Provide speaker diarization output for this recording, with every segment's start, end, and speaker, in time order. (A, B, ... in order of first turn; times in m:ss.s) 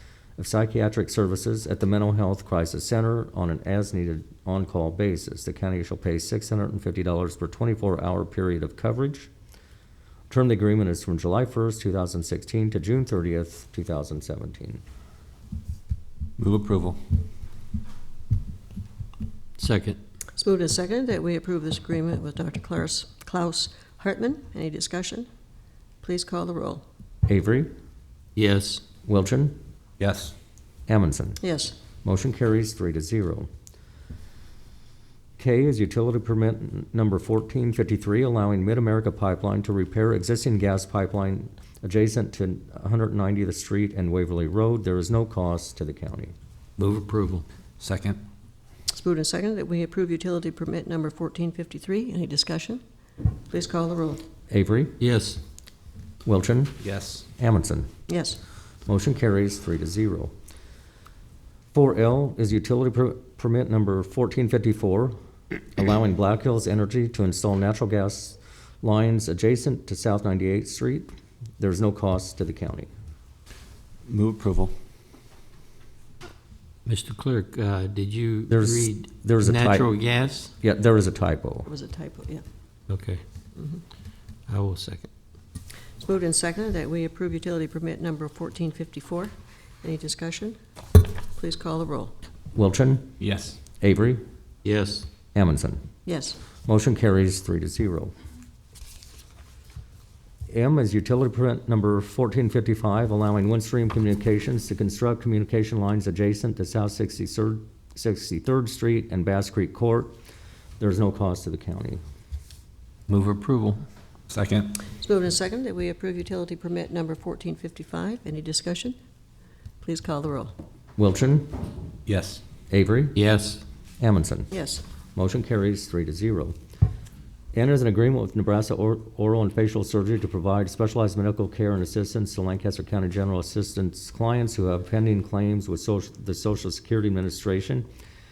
0:00.4-0:09.3 A
0:10.3-0:14.8 A
0:16.4-0:17.2 B
0:19.6-0:20.0 C
0:20.3-0:25.3 D
0:26.0-0:26.8 D
0:27.3-0:27.7 A
0:28.4-0:28.8 C
0:29.0-0:29.6 A
0:30.0-0:30.3 B
0:30.9-0:31.4 A
0:31.4-0:31.8 D
0:32.0-0:33.5 A
0:35.4-0:46.3 A
0:46.8-0:47.4 C
0:47.8-0:48.2 B
0:48.9-0:52.8 D
0:53.5-0:54.2 D
0:54.5-0:55.0 A
0:55.0-0:55.4 C
0:56.2-0:56.8 A
0:56.8-0:57.2 B
0:57.4-0:57.9 A
0:58.1-0:58.4 D
0:58.8-1:00.3 A
1:01.7-1:05.1 A
1:05.7-1:12.9 A
1:14.0-1:14.7 B
1:16.8-1:20.5 C
1:18.5-1:19.9 A
1:20.6-1:21.7 A
1:21.7-1:22.4 D
1:22.9-1:23.2 C
1:24.5-1:25.1 C
1:26.0-1:32.2 D
1:32.5-1:33.2 A
1:33.2-1:33.6 B
1:33.7-1:34.2 A
1:34.6-1:35.1 C
1:35.3-1:35.8 A
1:36.0-1:36.4 D
1:36.6-1:38.1 A
1:40.5-1:50.2 A
1:50.8-1:52.0 A
1:53.1-1:53.8 C
1:54.3-1:54.8 B
1:54.8-1:59.0 D
1:59.8-2:00.6 D
2:01.0-2:01.6 A
2:02.0-2:02.4 B
2:02.7-2:03.2 A
2:03.1-2:03.6 C
2:04.0-2:04.5 A
2:04.5-2:04.8 D
2:05.1-2:06.6 A
2:07.5-2:17.8 A